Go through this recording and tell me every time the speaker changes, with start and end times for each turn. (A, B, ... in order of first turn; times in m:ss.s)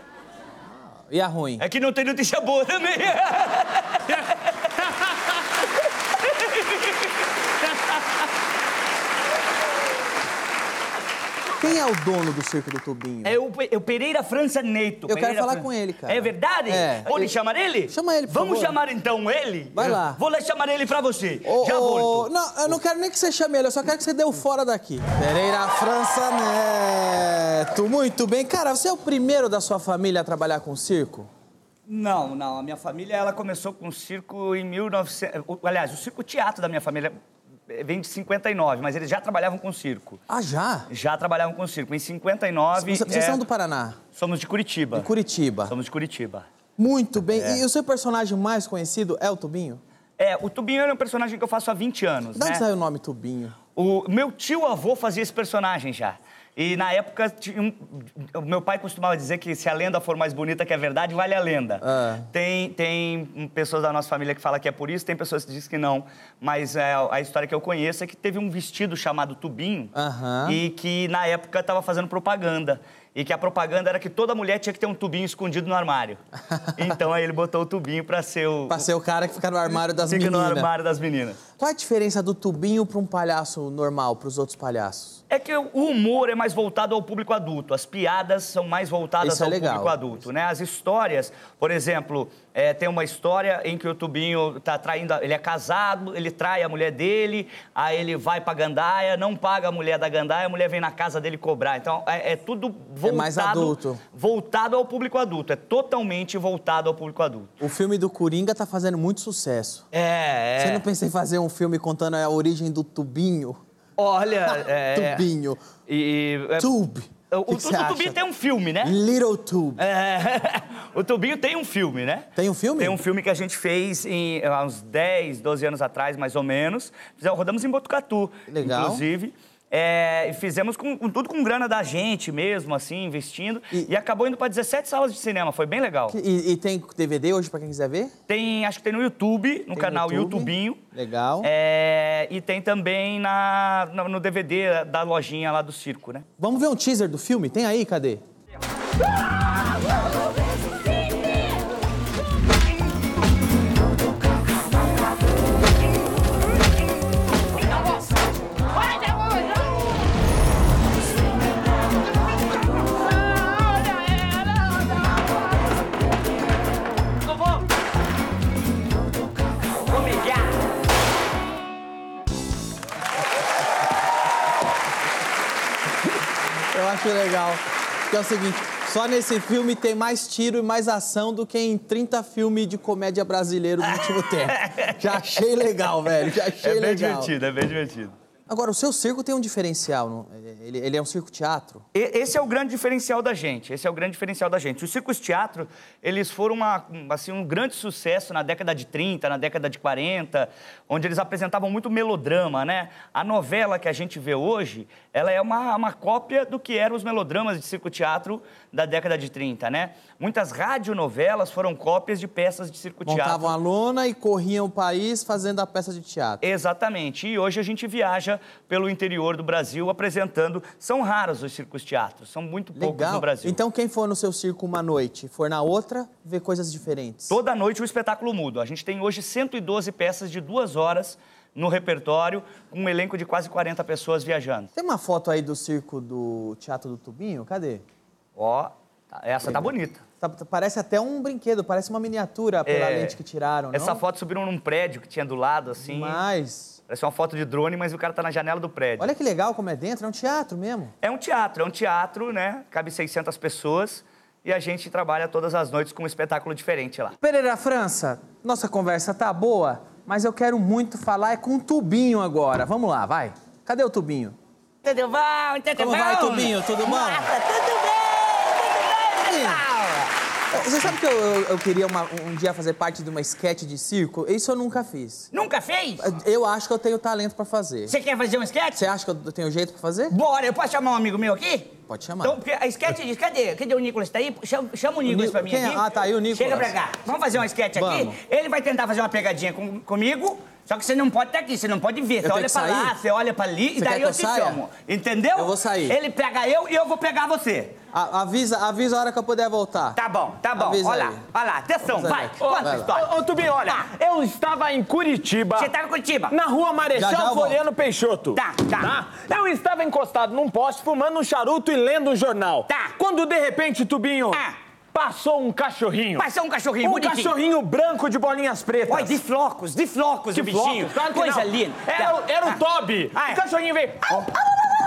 0:00.7-0:01.6 A
0:01.6-0:04.2 B
0:06.3-0:06.8 B
0:11.6-0:13.4 A
0:13.2-0:22.3 B
0:15.1-0:17.3 A
0:17.9-0:18.8 A
0:19.7-0:20.2 A
0:21.4-0:31.3 A
0:31.9-0:37.1 B
0:37.7-0:40.2 B
0:40.3-0:40.9 A
0:40.9-0:43.4 B
0:42.7-0:44.0 A
0:44.1-0:45.1 B
0:44.9-0:45.7 A
0:45.7-0:46.4 B
0:46.8-0:49.8 A
0:47.3-0:47.6 B
0:50.2-0:52.6 B
0:52.3-0:53.6 A
0:53.7-1:09.9 B
1:01.8-1:02.3 A
1:09.9-1:10.6 A
1:10.4-1:16.2 B
1:16.5-1:16.9 A
1:16.8-1:18.8 B
1:18.7-1:20.7 A
1:19.9-1:21.4 B
1:21.6-1:25.2 A
1:25.3-1:47.6 B
1:29.2-1:30.2 A
1:43.0-1:44.0 A
1:47.6-1:49.8 A
1:49.9-1:50.8 B
1:50.6-1:53.6 A
1:54.0-1:55.2 B
1:54.9-1:55.6 A
1:55.9-1:56.7 B
1:56.6-1:58.2 A
1:57.3-1:58.9 B
1:58.8-1:59.8 A
1:59.8-2:02.3 B
2:02.4-2:03.0 A
2:02.8-2:16.2 B
2:08.5-2:09.0 A
2:16.1-2:18.1 A
2:18.3-2:20.8 B
2:19.7-2:21.5 A
2:21.4-2:26.2 B
2:26.4-2:28.2 A
2:49.8-2:50.5 C
2:56.7-3:07.3 A
3:04.6-3:05.0 B
3:06.6-3:08.1 B
3:08.5-3:11.8 A
3:11.9-3:33.5 B
3:33.0-3:36.4 A
3:36.4-3:43.6 B
3:42.7-3:47.4 A
3:47.3-3:54.7 B
3:54.7-3:57.8 A
3:58.4-4:00.0 B
4:00.2-4:04.0 A
4:02.6-4:03.1 B
4:03.7-4:06.2 B
4:05.8-4:06.8 A
4:06.9-4:09.1 B
4:09.0-4:10.9 A
4:11.0-4:17.1 B
4:17.2-4:24.4 A
4:24.8-4:30.1 C
4:25.8-4:27.3 A
4:29.2-4:29.6 A
4:30.5-4:35.3 A
4:35.3-4:36.0 C
4:36.0-4:37.9 A
4:37.9-4:38.8 C
4:38.8-4:40.1 A
4:40.1-4:41.7 C
4:41.9-4:42.4 A
4:42.2-4:43.0 B
4:42.4-4:45.7 C
4:45.0-4:45.8 B
4:45.0-4:46.7 A
4:46.3-4:52.8 C
4:47.8-4:48.1 A
4:52.2-4:52.9 A
4:52.3-4:55.5 B
4:53.8-4:54.6 A
4:55.3-4:56.0 A
4:55.9-4:57.7 C
4:57.9-5:00.0 A
5:00.0-5:03.0 C
5:00.6-5:01.2 A
5:01.9-5:03.0 A
5:02.4-5:05.7 D
5:05.6-5:06.3 C
5:06.3-5:14.4 D
5:06.9-5:07.6 A
5:08.3-5:08.9 C
5:12.7-5:13.0 C
5:14.9-5:16.2 D
5:16.2-5:17.3 C
5:16.8-5:19.2 D
5:18.9-5:22.6 C
5:20.3-5:24.3 D
5:23.1-5:23.4 C